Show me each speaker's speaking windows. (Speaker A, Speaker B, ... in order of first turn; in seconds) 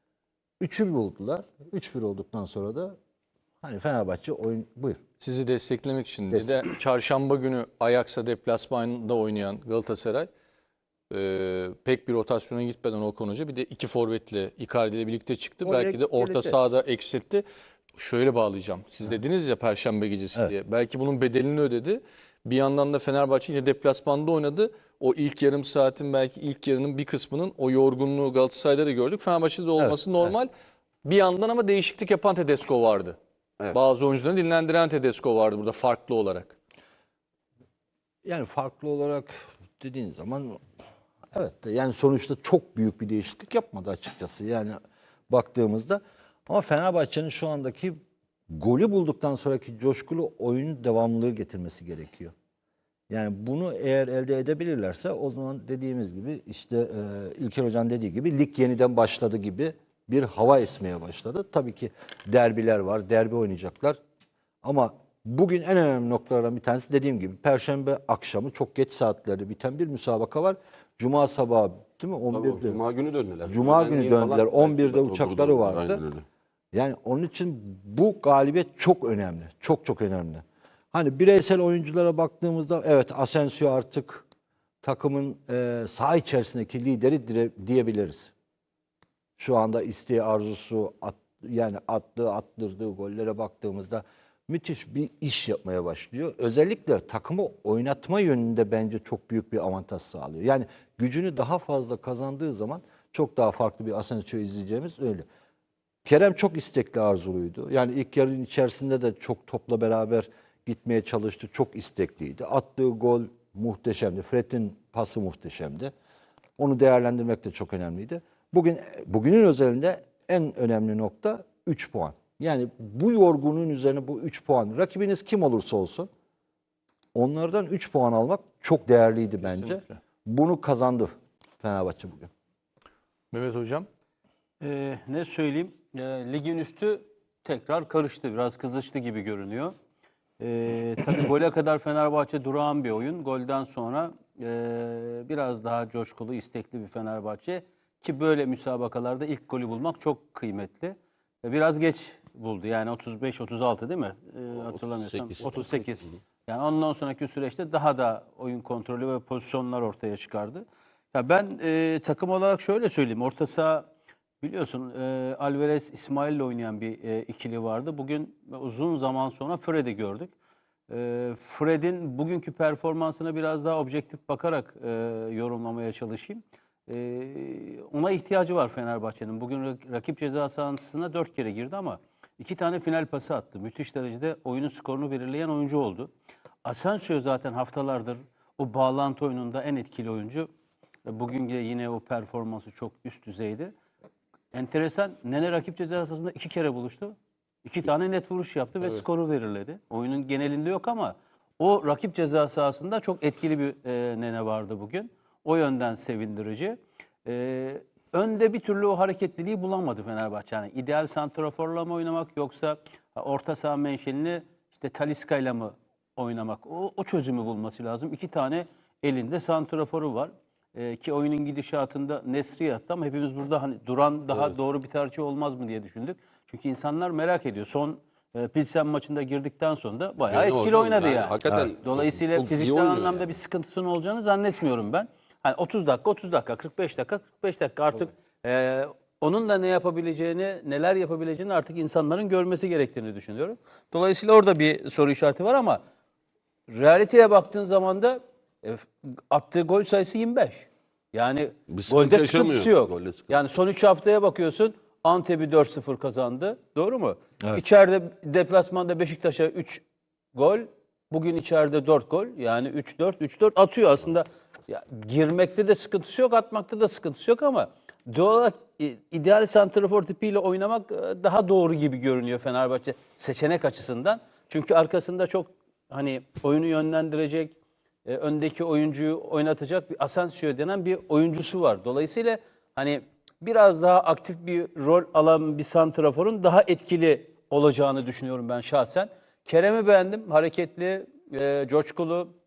Speaker A: 0.6-3.0, 3.6-5.0, 15.6-16.6, 29.8-30.3, 38.2-40.6, 41.3-52.3, 53.1-64.0, 64.6-72.8, 73.5-76.0, 76.7-84.3, 84.8-88.3, 89.4-105.3, 106.0-115.9, 116.6-126.1, 127.1-132.3
Speaker B: 5.2-10.3, 11.1-30.5, 31.1-33.2, 33.7-36.6, 129.4-130.0, 133.3-133.9
Speaker C: 72.3-76.2, 154.6-156.2, 230.3-233.3, 251.7-253.4
Speaker D: 134.6-139.7, 140.4-163.9, 164.4-170.3, 170.9-186.1, 186.7-190.5, 191.1-193.7, 194.5-245.8, 246.7-259.8, 260.3-292.3